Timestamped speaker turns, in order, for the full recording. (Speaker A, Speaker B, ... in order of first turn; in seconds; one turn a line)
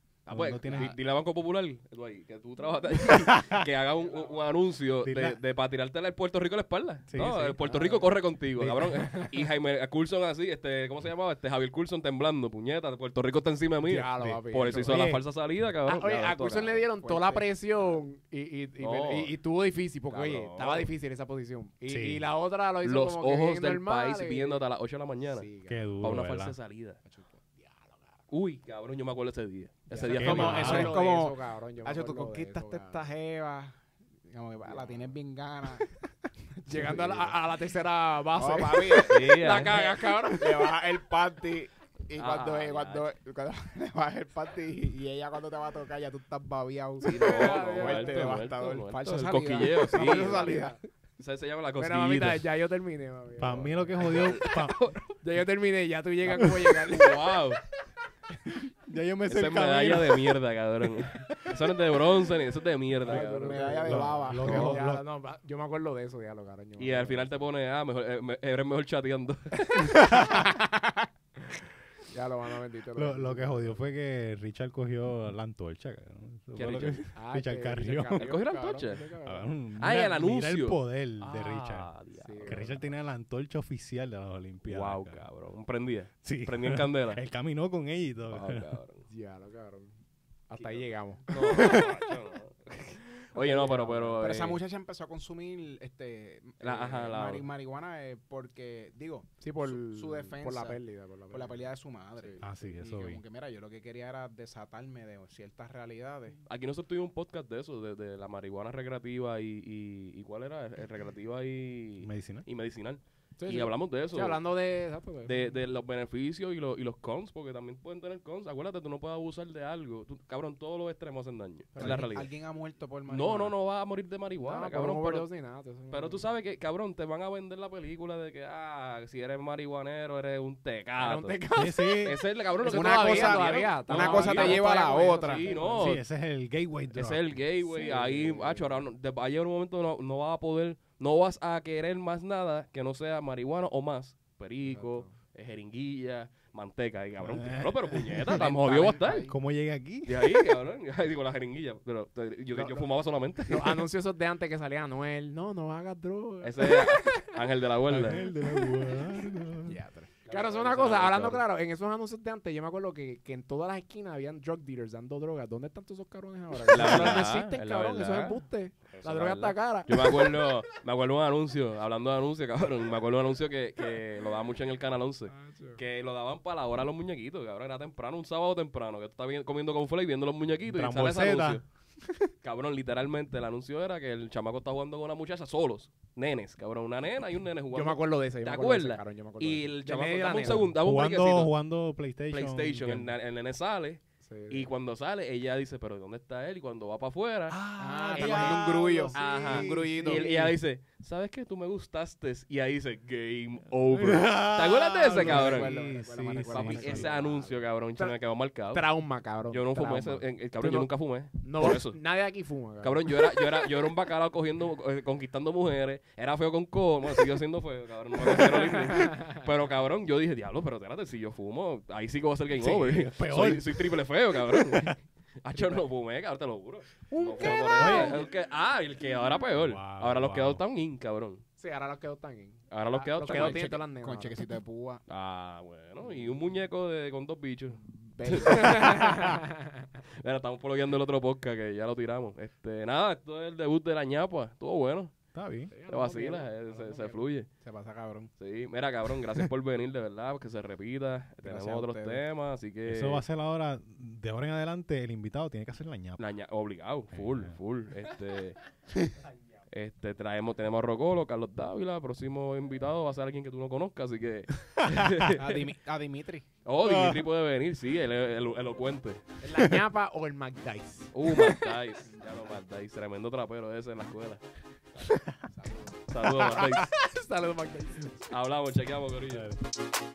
Speaker A: 0.3-16.8
Speaker B: 0.3-0.9
Speaker B: 3.1-3.6
Speaker C: 4.0-4.5
Speaker B: 5.0-5.4
Speaker B: 7.1-7.7
Speaker B: 8.6-9.3
Speaker C: 13.8-15.0
Speaker B: 14.2-15.2
Speaker C: 15.8-24.6
Speaker D: 16.8-18.0
Speaker A: 18.8-19.3
Speaker A: 20.1-20.9
Speaker B: 21.9-22.2
Speaker A: 22.8-25.5
Speaker C: 25.3-25.8
Speaker B: 25.6-26.6
Speaker A: 26.0-27.0
Speaker C: 27.1-28.2
Speaker A: 28.3-30.9
Speaker C: 29.9-33.1
Speaker D: 30.0-36.0
Speaker B: 30.1-31.0
Speaker C: 34.6-35.1
Speaker D: 36.6-37.3
Speaker C: 36.6-40.9
Speaker D: 38.3-39.6
Speaker A: 39.0-40.0
Speaker D: 40.3-50.8
Speaker A: 42.1-43.1
Speaker A: 47.0-50.7
Speaker C: 47.2-48.4
Speaker C: 50.0-50.8
Speaker A: 51.2-52.5
Speaker C: 51.8-54.3
Speaker B: 53.4-54.8
Speaker A: 54.0-55.0
Speaker C: 55.2-57.2
Speaker B: 56.3-56.7
Speaker A: 56.9-57.6
Speaker B: 58.5-61.6
Speaker A: 59.3-64.8
Speaker D: 63.0-64.8
Speaker C: 63.0-67.4
Speaker B: 63.8-65.0
Speaker A: 66.8-70.1
Speaker C: 70.0-70.6
Speaker B: 70.1-70.4
Speaker D: 70.5-71.1
Speaker C: 72.1-73.8
Speaker B: 73.0-78.3
Speaker A: 76.5-77.1
Speaker C: 77.1-79.5
Speaker A: 78.0-79.0
Speaker B: 79.2-81.9
Speaker A: 79.8-82.8
Speaker C: 82.2-82.7
Speaker B: 82.5-85.2
Speaker A: 84.6-87.2
Speaker B: 86.2-88.7
Speaker A: 88.3-89.0
Speaker C: 89.1-89.9
Speaker C: 90.5-92.1
Speaker A: 90.6-94.6
Speaker C: 93.3-94.2
Speaker D: 94.2-106.4
Speaker A: 96.6-97.5
Speaker C: 99.4-101.6
Speaker C: 102.2-102.5
Speaker B: 102.4-103.2
Speaker A: 106.5-114.4
Speaker B: 112.0-112.4
Speaker C: 113.4-115.4
Speaker A: 115.2-122.3
Speaker C: 121.7-122.1
Speaker D: 121.8-123.5
Speaker A: 123.1-125.3
Speaker C: 124.4-126.2
Speaker A: 125.9-131.4
Speaker C: 131.0-132.1
Speaker B: 131.5-132.2
Speaker A: 132.0-134.6
Speaker C: 132.6-135.9
Speaker D: 132.6-135.4
Speaker A: 135.2-136.0
Speaker B: 135.8-137.4
Speaker A: 136.9-149.3
Speaker C: 137.6-138.8
Speaker C: 144.7-145.1
Speaker B: 147.2-148.5
Speaker D: 148.3-149.4
Speaker B: 149.1-150.5
Speaker A: 150.1-153.9
Speaker C: 152.5-152.8
Speaker C: 153.5-157.4
Speaker A: 156.4-158.3
Speaker B: 157.9-159.8
Speaker C: 159.6-170.5
Speaker A: 160.2-161.4
Speaker A: 166.7-181.6
Speaker C: 175.3-175.8
Speaker B: 180.7-181.6
Speaker A: 182.4-191.5
Speaker C: 187.7-190.7
Speaker B: 190.4-193.1
Speaker A: 192.3-197.6
Speaker C: 194.2-194.7
Speaker B: 197.5-200.4
Speaker C: 197.8-200.2
Speaker D: 198.0-200.3
Speaker A: 198.2-205.7
Speaker B: 203.9-207.1
Speaker D: 205.2-207.2
Speaker C: 205.3-208.2
Speaker A: 206.5-208.9
Speaker C: 208.7-213.6
Speaker A: 209.5-212.0
Speaker A: 212.8-231.4
Speaker C: 218.4-219.3
Speaker B: 222.5-223.9
Speaker B: 224.5-224.9
Speaker C: 225.5-225.8
Speaker B: 227.1-228.2
Speaker D: 227.4-228.1
Speaker B: 229.5-230.6
Speaker C: 231.6-234.3
Speaker A: 232.7-233.8
Speaker D: 233.3-235.0
Speaker A: 235.1-239.3
Speaker C: 238.2-239.8
Speaker A: 240.2-245.1
Speaker B: 245.3-245.7
Speaker C: 245.7-247.2
Speaker A: 245.9-247.5
Speaker D: 247.6-248.3
Speaker A: 248.4-253.2
Speaker D: 251.4-252.2
Speaker B: 252.8-256.2
Speaker A: 256.2-258.6
Speaker B: 257.1-257.6
Speaker A: 259.7-265.6
Speaker D: 265.3-266.5
Speaker A: 266.6-269.2
Speaker B: 266.8-267.2
Speaker C: 269.4-271.6
Speaker A: 271.1-274.4
Speaker D: 275.6-275.9
Speaker A: 276.1-276.9
Speaker C: 276.9-278.2
Speaker A: 278.2-279.5
Speaker B: 279.3-279.6